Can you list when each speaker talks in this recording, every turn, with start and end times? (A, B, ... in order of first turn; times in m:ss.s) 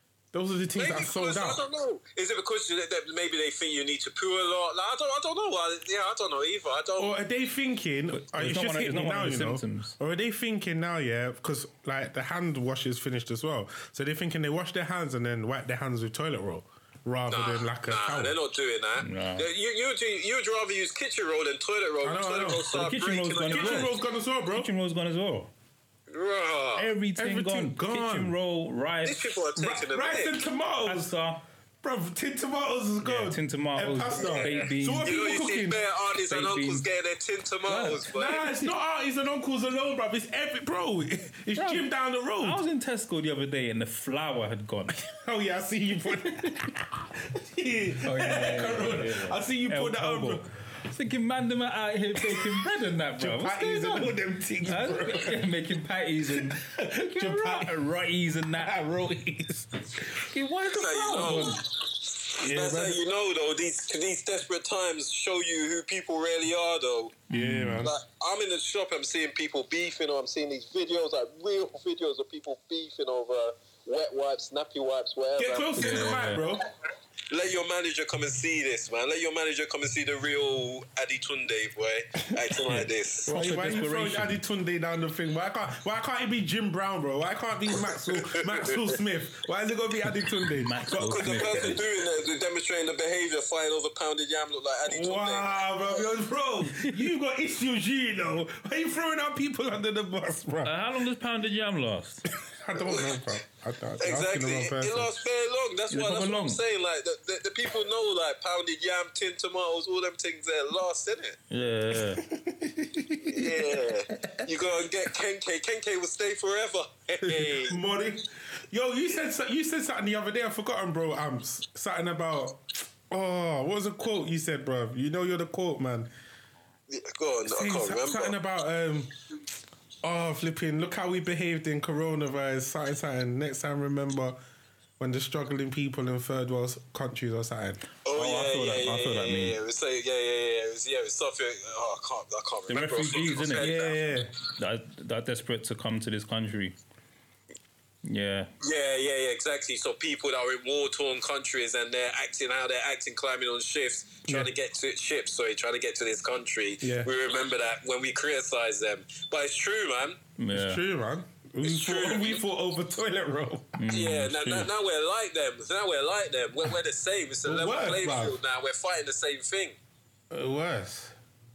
0:00.3-0:01.7 A
0:00.8-0:07.1 B
0:07.0-0:18.4 A
0:08.1-0:10.0 C
0:17.3-0:23.9 B
0:19.0-0:19.5 C
0:22.0-0:22.8 A
0:22.7-0:24.0 C
0:23.5-0:24.7 A
0:24.5-0:25.5 C
0:26.1-0:26.9 B
0:26.8-0:29.4 C
0:27.2-0:28.4 A
0:29.0-0:30.3 B
0:29.6-0:31.1 A
0:30.8-0:31.4 C
0:31.8-0:35.8 A
0:33.0-0:35.2 C
0:34.2-0:38.5 B
0:36.2-0:36.9 C
0:37.7-0:38.1 C
0:38.1-0:42.6 A
0:41.6-0:41.9 C
0:42.4-0:45.0 C
0:44.9-0:50.4 A
0:48.0-0:54.1 C
0:53.2-0:55.5 A
0:54.6-0:58.8 C
0:56.3-0:57.8 A
0:58.5-1:00.3 A
1:00.2-1:01.6 C
1:00.7-1:07.2 B
1:02.3-1:03.0 A
1:07.3-1:07.9 C
1:07.3-1:08.0 A
1:07.8-1:16.3 B
1:15.4-1:16.7 A
1:15.8-1:16.4 C
1:17.3-1:23.3 B
1:22.7-1:24.4 C
1:23.2-1:31.8 A
1:28.0-1:28.6 B
1:30.6-1:31.8 C
1:30.9-1:36.0 B
1:34.9-1:40.8 A
1:40.6-1:42.3 C
1:42.4-1:45.1 A
1:42.8-1:43.2 B
1:44.0-1:51.4 B
1:45.9-1:46.6 C
1:51.5-1:52.2 C
1:52.0-1:54.4 A
1:53.3-1:57.8 B
1:57.2-2:06.1 A
2:06.9-2:08.4 B
2:07.5-2:09.1 A
2:10.0-2:14.4 A
2:15.0-2:17.8 A
2:18.0-2:24.0 B
2:18.1-2:19.6 C
2:22.7-2:26.8 C
2:23.6-2:24.3 A
2:28.0-2:28.5 C
2:28.6-2:40.2 B
2:34.3-2:34.5 A
2:36.8-2:37.1 A
2:40.4-2:40.8 C
2:40.5-2:43.8 A
2:41.6-2:42.4 B
2:43.8-2:44.7 C
2:43.9-2:49.8 B
2:47.4-2:48.4 A
2:50.3-2:51.2 A